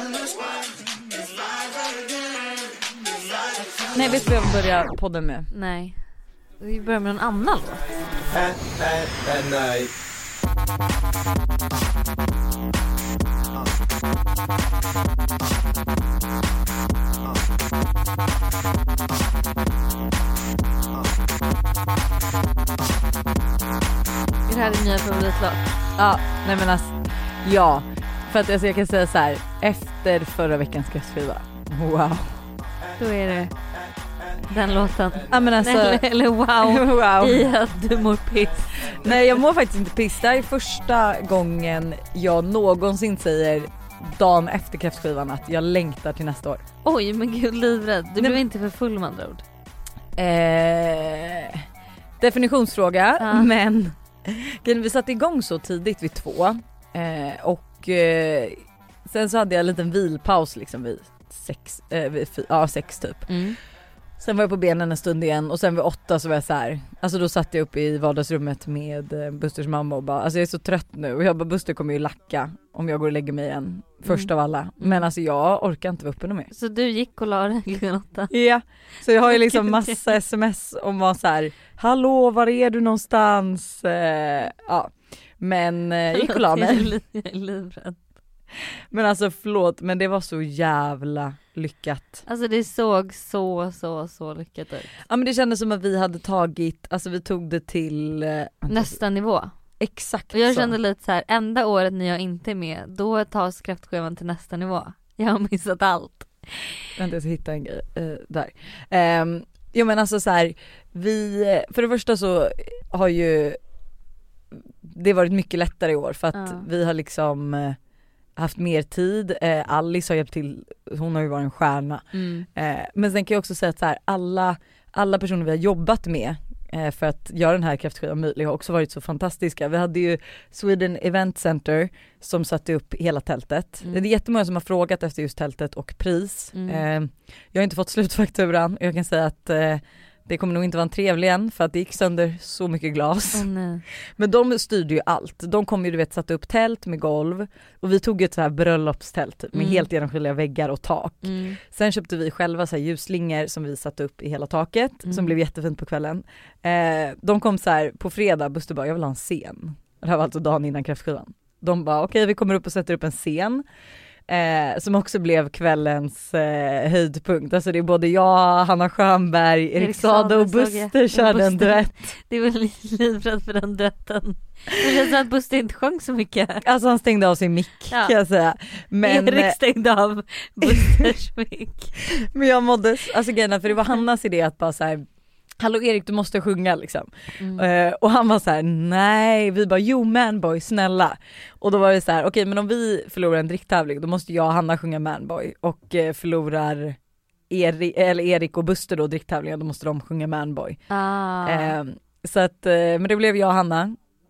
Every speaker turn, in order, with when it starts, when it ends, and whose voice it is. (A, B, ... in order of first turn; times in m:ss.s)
0:03.9-0:05.5 A
0:05.5-0:06.0 B
0:06.6-0:07.9 B
0:24.5-0:25.7 B
0:26.0-0:32.4 A
0:33.0-0:33.5 B
0:34.5-0:39.2 B
0:35.3-0:36.0 A
0:36.6-0:37.5 A
0:38.9-0:46.6 A
0:46.8-0:49.4 B
0:50.2-0:51.6 A
0:52.2-1:03.4 A
0:53.2-0:53.5 B
1:03.3-1:03.6 B
1:04.2-1:16.5 A
1:14.0-1:15.1 B
1:16.5-1:18.3 B
1:18.3-1:26.9 A
1:19.2-1:20.0 B
1:26.1-1:28.0 B
1:28.9-1:32.2 A
1:32.3-1:34.9 B
1:35.1-1:39.0 A
1:38.7-1:39.5 B
1:39.8-1:40.7 A
1:40.3-1:46.6 B
1:47.0-1:53.6 A
1:54.8-1:57.8 A
1:56.3-1:56.6 B
1:58.4-2:23.5 A
2:02.1-2:02.4 B
2:16.5-2:16.8 B
2:23.3-2:23.8 B
2:24.2-2:43.6 A
2:29.5-2:29.9 B
2:31.2-2:31.6 B
2:35.0-2:35.3 B
2:44.3-2:52.1 A
2:49.8-2:56.6 B
2:56.6-2:59.6 A
2:57.9-2:58.2 B
2:59.0-3:01.9 B
3:00.6-3:01.1 A
3:02.0-3:05.0 A
3:05.6-3:17.0 A
3:07.4-3:07.6 B
3:17.5-3:20.8 A
3:20.9-3:21.8 B
3:21.4-3:24.0 A